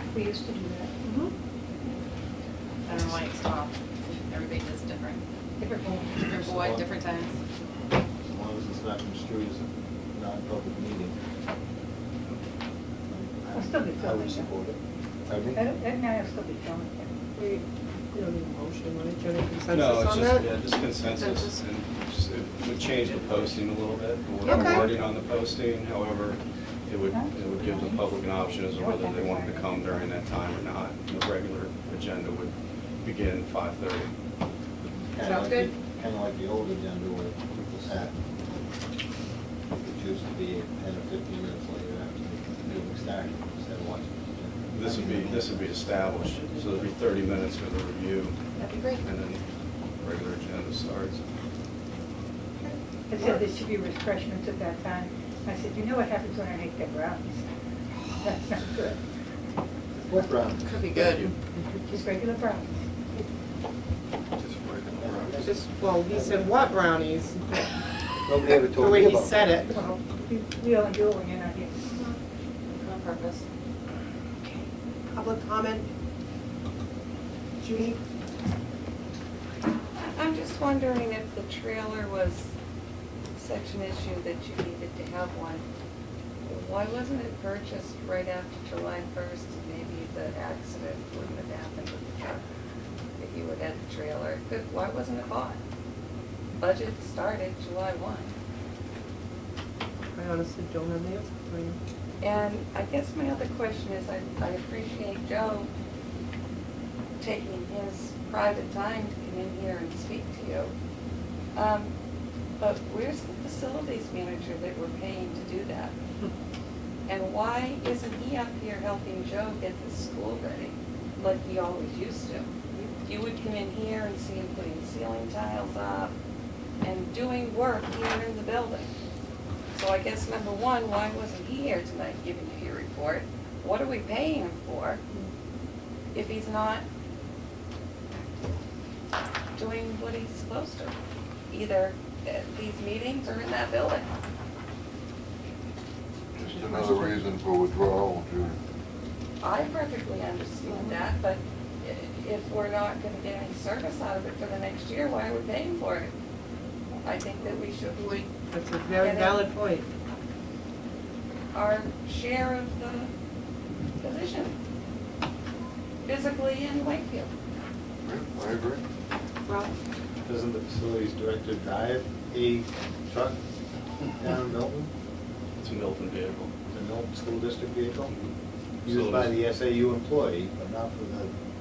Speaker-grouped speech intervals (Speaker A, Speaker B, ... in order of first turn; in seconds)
Speaker A: 0.1-1.0, 5.6-6.3, 13.5-14.5, 15.5-17.1, 27.1-28.1, 28.8-30.1, 53.1-57.5, 58.2-59.0, 61.9-62.8, 69.7-71.9
Speaker B: 1.0-1.3, 17.4-20.5, 24.4-24.9, 65.4-67.7, 68.7-70.0, 74.4-75.9, 77.6-78.0, 100.1-101.8, 158.5-159.9
Speaker C: 2.9-5.2, 6.2-7.4, 21.0-21.6, 22.8-23.6, 48.6-49.0, 60.6-61.3, 72.8-73.5
Speaker D: 6.2-6.9, 8.3-11.2, 13.4-15.6, 34.8-38.2, 39.7-46.0, 53.2-53.5, 60.0-60.8, 65.0-66.5, 68.2-69.8, 170.3-173.4, 174.1-174.9, 176.7-178.1, 178.8-181.3
Speaker E: 19.7-32.5, 33.0-34.1, 44.7-48.4, 49.0-49.4, 50.0-51.2, 60.9-61.3, 175.6-176.5, 178.8-179.4
Speaker F: 35.2-35.7, 80.0-82.5, 83.4-85.7, 86.4-92.4, 93.2-95.6, 96.6-98.4, 102.2-105.7, 107.2-110.7, 111.5-111.9, 112.6-115.9, 117.1-122.5, 123.0-126.1, 126.8-128.9, 129.7-135.0, 136.1-136.8, 139.6-140.9, 141.5-144.1, 149.4-156.1, 157.1-158.3, 159.0-159.4, 161.5-163.1, 164.0-164.5, 166.1-167.3
Speaker G: 64.4-65.3, 146.3-148.6, 168.1-168.8